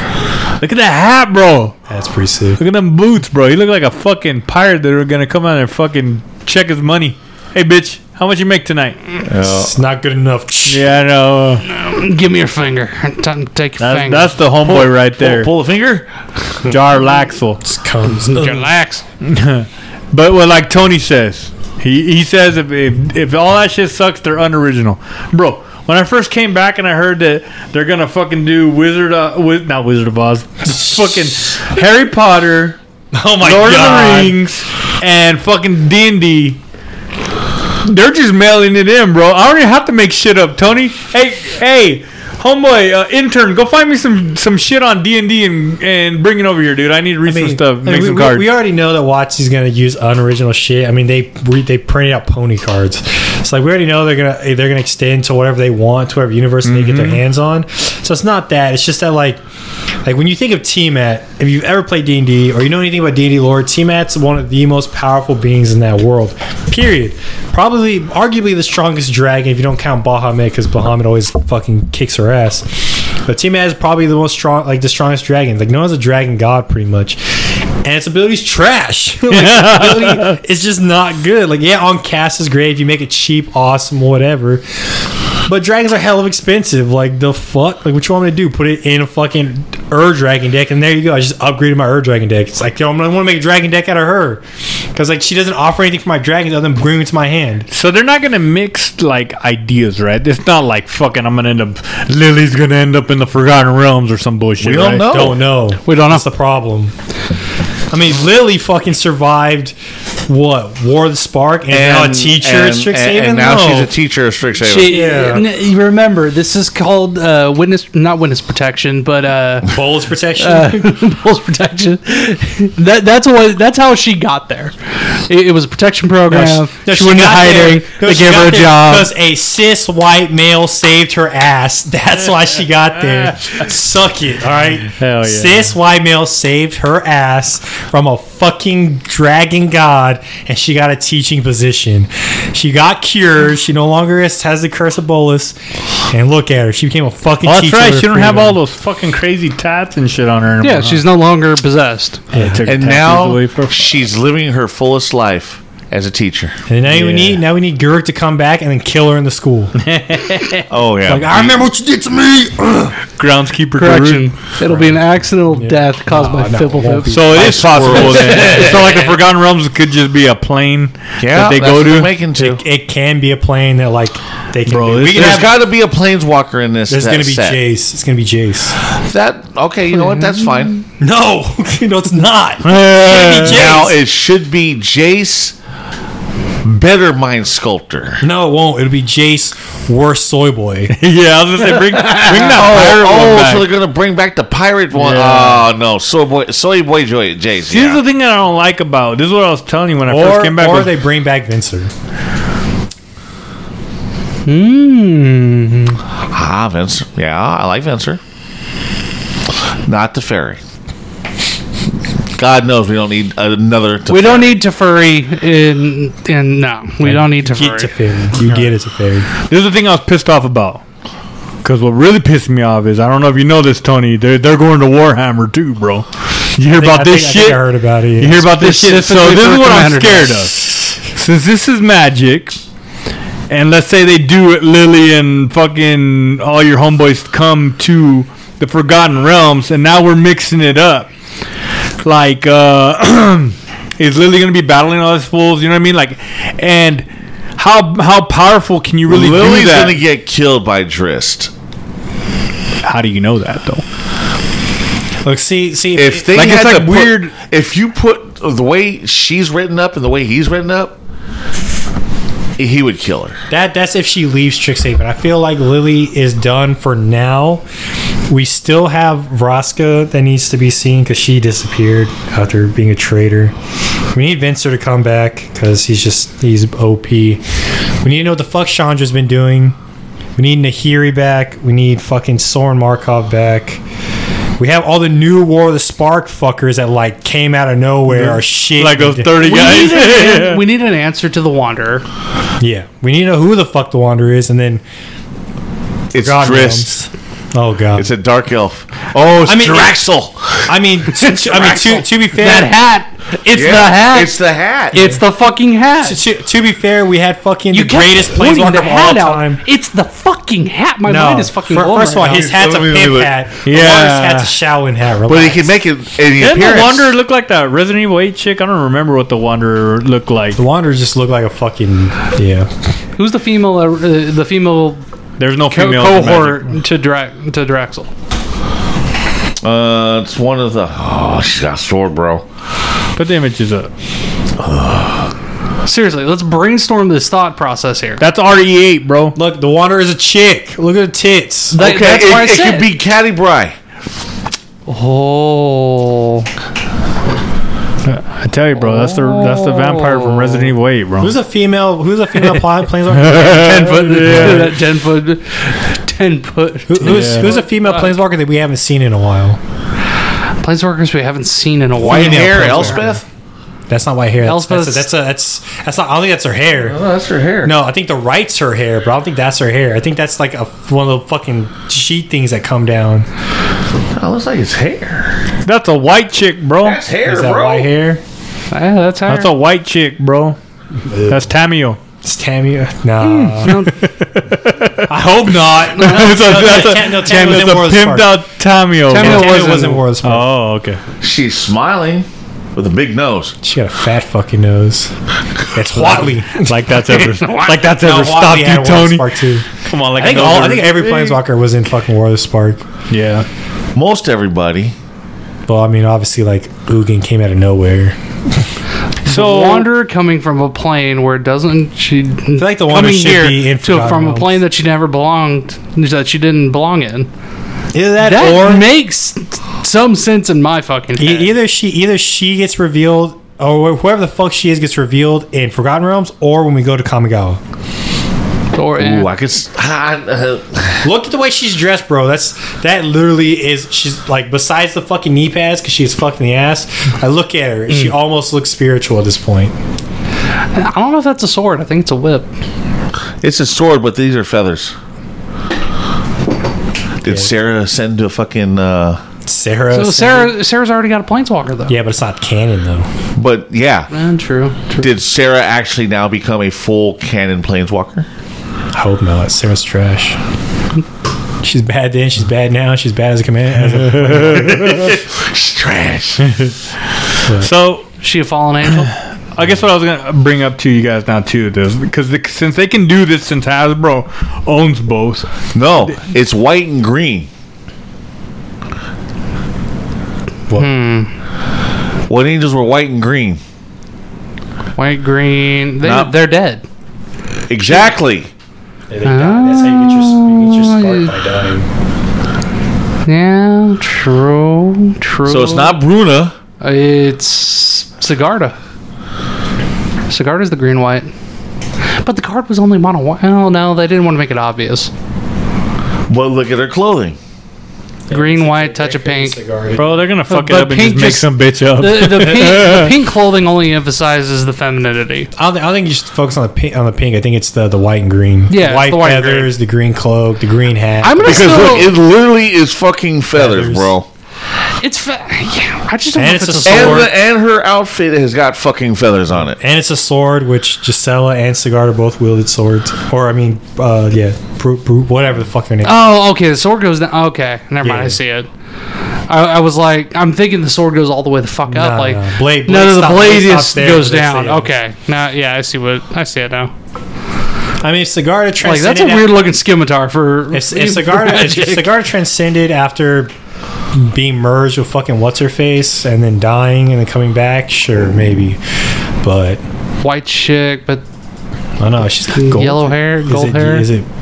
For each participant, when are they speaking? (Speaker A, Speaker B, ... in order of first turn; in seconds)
Speaker A: 0.6-1.8, 2.6-9.0, 10.7-11.7, 13.8-15.5, 16.6-17.6, 19.2-32.8, 33.4-36.6, 37.8-48.5, 56.6-57.2, 79.3-80.4, 97.7-105.1, 135.0-135.7, 147.4-151.0, 152.3-154.0, 156.9-157.4, 159.8-160.7, 163.1-164.3, 167.1-172.1, 174.7-175.5, 182.6-183.7, 190.9-193.7, 194.9-195.7, 197.7-200.9, 218.4-218.7, 219.4-220.8, 221.6-227.6, 228.2-232.6, 233.5-241.1, 242.0-247.1, 247.6-250.0, 252.8-253.8, 256.3-257.4, 288.1-290.6, 313.6-314.5, 316.4-320.6, 325.4-326.8, 333.2-333.9, 338.2-339.4, 348.1-351.4, 353.1-354.8, 357.0-357.5, 375.6-377.0, 379.3-380.6, 381.2-382.0, 383.7-385.1, 385.8-389.6, 390.2-391.0, 395.9-401.4, 403.1-403.5, 409.3-409.9, 463.8-465.0, 466.5-466.7, 467.6-468.1, 469.5-476.2, 510.0-513.1
Speaker B: 1.9-2.6, 9.4-10.9, 17.6-18.7, 33.1-34.4, 47.3-59.4, 60.0-97.7, 105.0-106.9, 107.9-109.8, 110.3-113.9, 114.9-115.5, 119.7-121.0, 126.3-148.6, 152.3-152.7, 156.7-159.8, 161.1-163.0, 164.7-165.0, 165.5-167.6, 172.4-175.5, 176.9-178.8, 181.0-184.0, 188.2-191.0, 200.1-201.9, 217.0-219.3, 226.7-228.6, 255.2-256.4, 263.5-267.6, 268.3-273.5, 274.1-277.4, 278.0-279.8, 280.4-283.8, 284.6-289.4, 292.6-294.8, 296.2-298.1, 299.4-300.1, 300.6-302.7, 304.9-305.2, 306.0-309.6, 311.1-315.8, 320.6-322.7, 339.4-341.8, 351.2-354.7, 356.9-359.6, 362.0-363.2, 363.9-367.0, 367.6-373.3, 377.3-378.2, 381.1-381.5, 382.2-383.8, 385.1-388.4, 389.1-390.5, 393.6-395.2, 395.7-396.8, 398.0-402.9, 405.7-408.6, 412.6-414.5, 417.9-418.9, 421.2-427.6, 431.0-439.8, 447.2-447.5, 449.4-450.6, 451.9-453.1, 458.9-460.4, 461.6-465.1, 489.1-491.9, 508.3-510.1, 515.6-522.0, 523.5-524.1, 526.4-527.3, 529.8-536.1, 538.0-538.4, 541.9-544.9, 548.0-549.5, 550.7-553.5, 554.1-558.8, 559.4-559.8, 562.0-564.3
Speaker C: 9.3-9.7, 14.6-16.6, 104.6-105.4, 111.7-115.0, 152.7-156.6, 160.7-161.6, 167.3-169.1, 171.2-172.6, 175.1-177.6, 178.9-180.8, 183.4-185.6, 186.6-188.2, 191.9-198.0, 206.3-208.2, 209.8-210.6, 212.3-214.5, 249.1-251.5, 255.9-261.0, 262.6-263.4, 296.1-296.9, 297.9-300.7, 303.5-305.0, 312.2-313.3, 315.3-317.1, 329.6-332.4, 334.6-335.3, 341.8-343.8, 362.0-363.2, 366.8-367.7, 374.1-375.4, 376.8-377.9, 391.2-393.6, 403.9-404.9, 429.0-431.0, 443.4-444.9, 447.2-449.2, 453.4-454.1, 455.0-458.3, 464.6-466.6, 475.7-477.5, 482.3-483.6, 486.0-486.3, 487.7-488.5, 495.5-496.6, 506.3-507.4, 521.4-524.3, 526.9-529.8
Speaker D: 11.7-14.3, 18.2-19.0, 105.9-106.2, 114.6-119.8, 120.4-129.1, 150.6-152.2, 163.8-168.7, 179.9-180.8, 204.5-206.0, 214.1-217.9, 228.5-230.8, 289.4-292.1, 301.4-304.4, 304.9-306.2, 307.7-312.4, 323.2-325.0, 325.7-328.1, 335.9-338.2, 341.7-342.9, 344.9-346.5, 348.8-350.7, 353.4-358.2, 360.6-363.2, 364.4-365.1, 378.7-379.5, 383.2-383.9, 389.1-390.1, 397.4-397.8, 409.3-417.3, 418.2-421.5, 428.7-429.3, 440.7-442.5, 449.9-452.0, 454.1-455.1, 468.2-469.1, 480.7-481.3, 485.0-486.9, 489.2-491.3, 493.3-496.0, 496.8-498.8, 500.3-501.3, 502.1-505.1, 508.3-509.6, 510.5-515.5, 518.7-519.7, 521.2-522.1, 525.0-527.3, 536.0-538.7, 539.5-546.9, 548.8-552.1, 560.2-561.2, 562.6-564.1